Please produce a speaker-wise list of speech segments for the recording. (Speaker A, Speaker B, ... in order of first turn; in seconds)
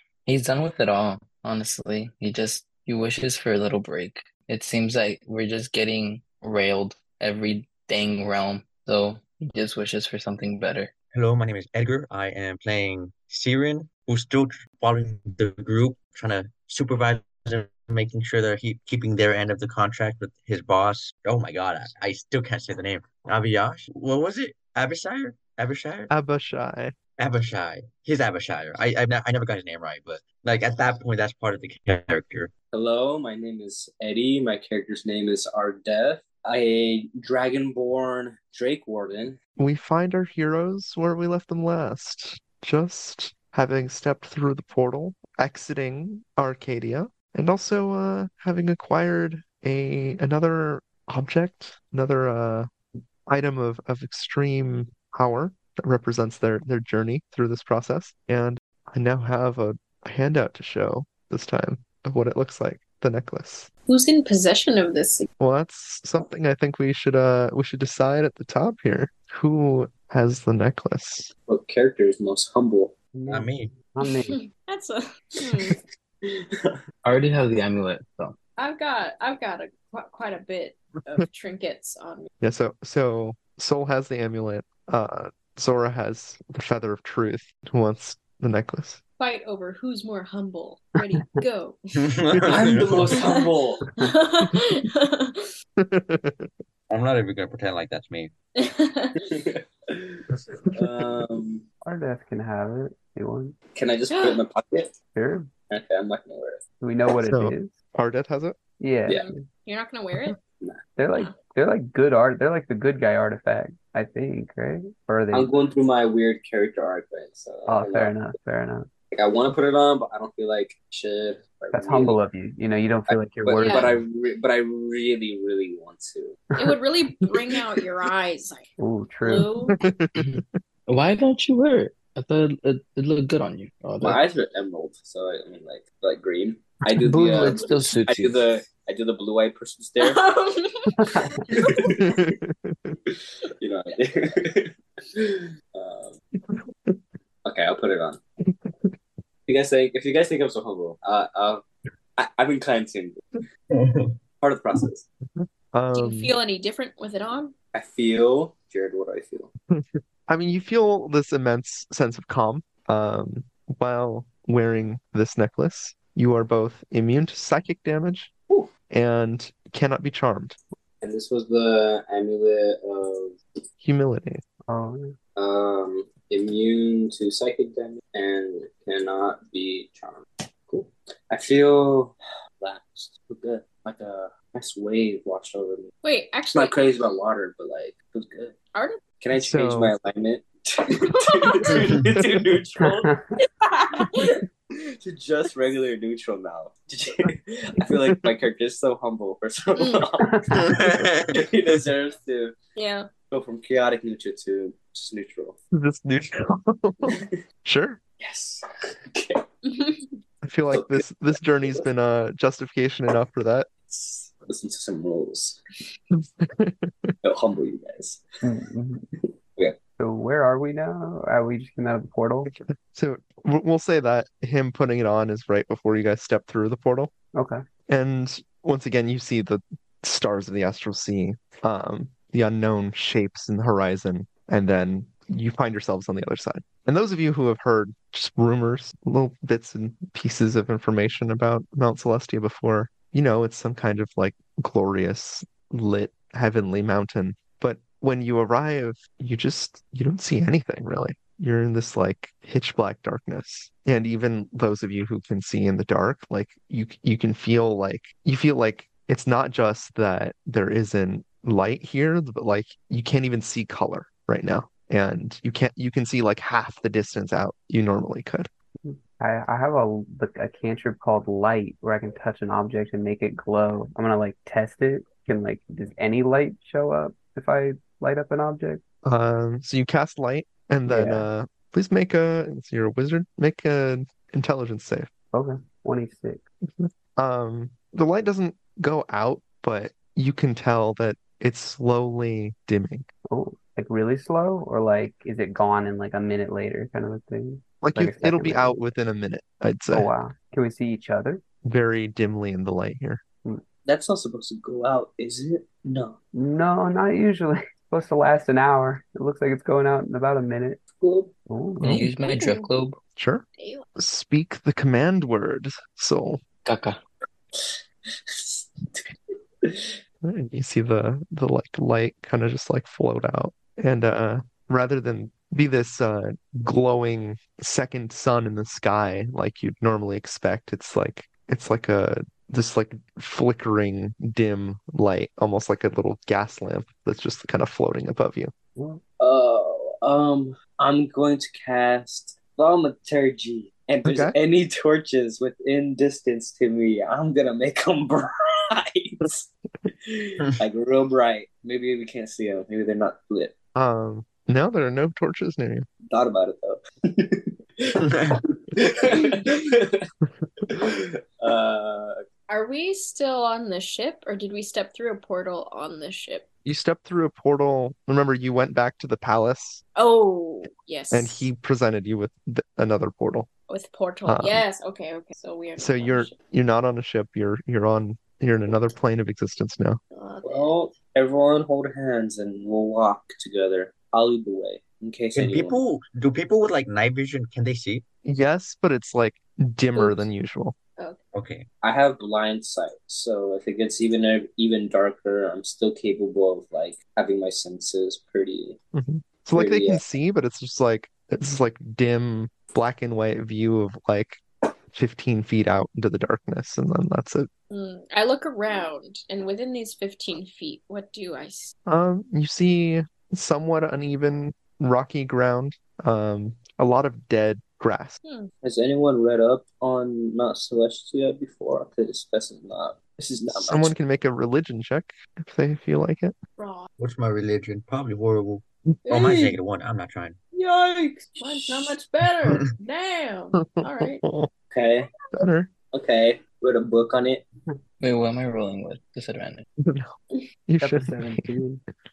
Speaker A: 0.2-10.9, 77.0-78.3, 130.2-134.2, 137.0-138.4, 311.8-313.0, 316.6-317.0, 438.0-439.6
Speaker B: 11.1-26.1, 27.2-32.5, 73.3-73.8, 92.0-93.2, 96.9-98.3, 153.7-154.1, 200.5-201.3, 358.1-358.3, 385.3-388.0, 391.3-391.6, 427.0-430.4
Speaker C: 26.1-27.0, 39.6-52.7, 53.2-63.7, 65.4-71.3, 82.4-89.0, 92.3-92.6, 95.8-96.5, 100.3-101.1, 107.2-108.6, 129.8-130.4, 142.0-143.0, 146.5-147.0, 148.4-148.9, 155.3-156.3, 159.7-168.3, 168.9-170.6, 173.8-174.4, 189.3-189.9, 205.7-208.0, 210.4-213.7, 216.4-217.1, 222.4-227.1, 227.9-268.5, 279.0-285.1, 286.6-293.1, 297.8-300.1, 301.6-303.2, 313.1-313.4, 313.9-316.4, 320.2-338.5, 344.0-344.3, 353.7-355.9, 366.6-369.8, 371.1-373.5, 374.2-374.6, 375.8-380.0, 388.2-390.7, 398.9-407.5, 411.9-418.2, 423.5-426.4, 433.6-434.5, 435.3-435.7, 439.8-440.1, 440.7-441.5
Speaker D: 32.7-39.4, 71.5-72.9, 75.7-76.8, 92.5-93.8, 99.3-101.6, 103.7-104.9, 105.7-106.6, 115.3-118.2, 119.1-122.2, 123.1-126.4, 134.0-140.2, 141.6-142.1, 143.6-146.1, 147.4-148.2, 149.5-151.6, 152.2-153.2, 154.4-155.0, 157.7-159.5, 171.0-173.4, 175.3-185.9, 186.5-188.5, 189.2-193.1, 194.0-194.4, 195.0-202.6, 203.3-205.6, 208.2-209.4, 210.7-211.8, 213.9-215.6, 217.2-218.2, 219.2-219.8, 303.8-306.2, 310.9-311.3, 317.5-319.0, 319.6-319.9, 339.2-353.5, 356.1-360.1, 360.7-362.2, 380.4-385.8, 391.8-398.8, 399.5-400.0, 418.6-423.9, 434.7-435.1, 435.9-437.4
Speaker E: 63.9-65.3, 74.3-75.8, 78.6-82.3, 89.2-91.8, 94.0-95.5, 98.6-99.2, 104.1-104.4, 109.1-110.4, 123.6-124.0, 126.6-128.7, 129.2-129.8, 140.0-142.1, 155.9-157.5, 186.0-186.8, 188.7-189.0, 191.4-191.8, 193.7-194.1, 199.8-200.1, 202.8-203.1, 209.6-210.2, 312.3-312.6, 313.6-313.8, 362.5-366.4, 369.9-371.5, 373.7-376.3, 380.1-380.7, 407.7-411.7, 418.2-418.5, 426.6-426.9, 429.1-429.6, 430.5-434.2
Speaker F: 73.1-74.4, 91.1-91.4, 101.8-103.5, 105.1-105.5, 106.8-107.7, 108.8-109.4, 111.0-115.5, 117.7-118.9, 121.7-123.9, 128.8-129.5, 141.0-141.4, 174.7-175.1, 192.8-193.2, 200.2-200.7, 218.4-219.1, 220.0-222.5, 227.3-227.6, 268.8-278.8, 280.9-281.3, 285.3-286.4, 293.3-298.8, 299.9-301.4, 306.3-310.8, 311.5-312.1, 338.8-339.0, 440.8-441.8